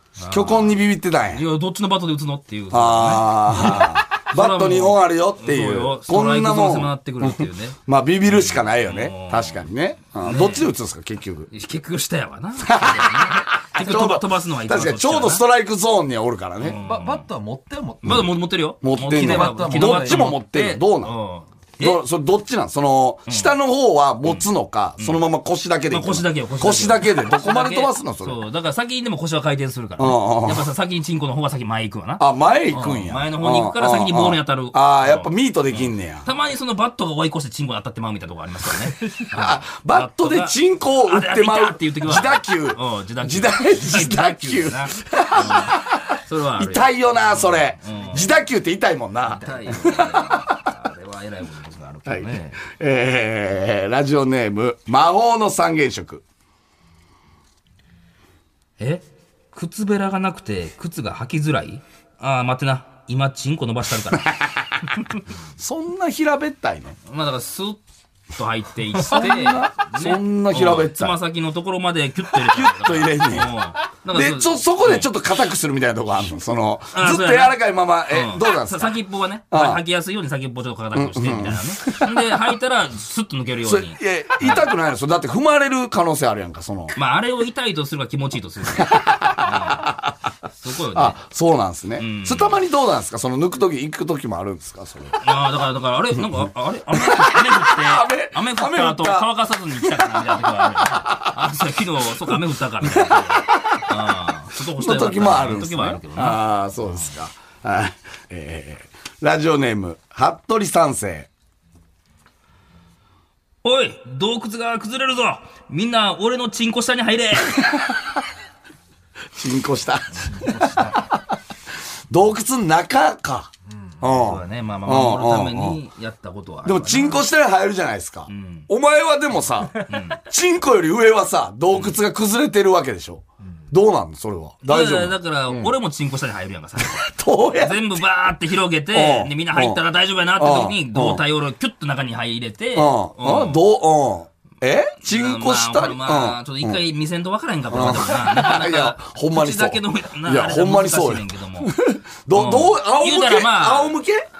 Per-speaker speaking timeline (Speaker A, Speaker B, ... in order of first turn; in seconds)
Speaker A: 0.2-9.6, 10.2-10.7, 11.5-15.4, 16.6-17.3, 18.0-22.0, 23.3-23.5, 24.2-25.2, 25.9-48.3, 49.3-52.6, 58.8-64.4, 67.1-67.8, 68.3-75.1, 76.9-84.7, 87.0-89.9, 90.5-91.2, 92.0-92.6, 95.2-107.1, 113.6-117.9, 124.1-127.3, 128.3-128.7, 129.8-130.2, 131.7-132.0, 134.7-143.7, 145.0-151.7, 152.3-154.0
Speaker B: 0.3-1.4, 2.7-11.5, 12.6-16.8, 18.8-21.1, 21.8-28.4, 30.0-30.7, 32.2-36.3, 39.3-50.7, 52.1-56.2, 64.2-64.8, 65.6-67.0, 68.9-71.2, 72.3-73.6, 74.1-79.0, 79.5-79.8, 81.0-82.4, 83.6-87.0, 88.8-90.1, 90.9-95.2, 96.4-101.3, 102.3-104.0, 104.8-111.3, 117.6-118.0, 119.4-121.4, 122.1-125.8, 126.7-135.7, 136.8-138.0, 138.9-139.8, 140.4-141.2, 142.8-146.8, 147.7-154.3
Speaker C: 16.8-18.3, 19.1-20.3, 120.3-121.1, 123.7-124.0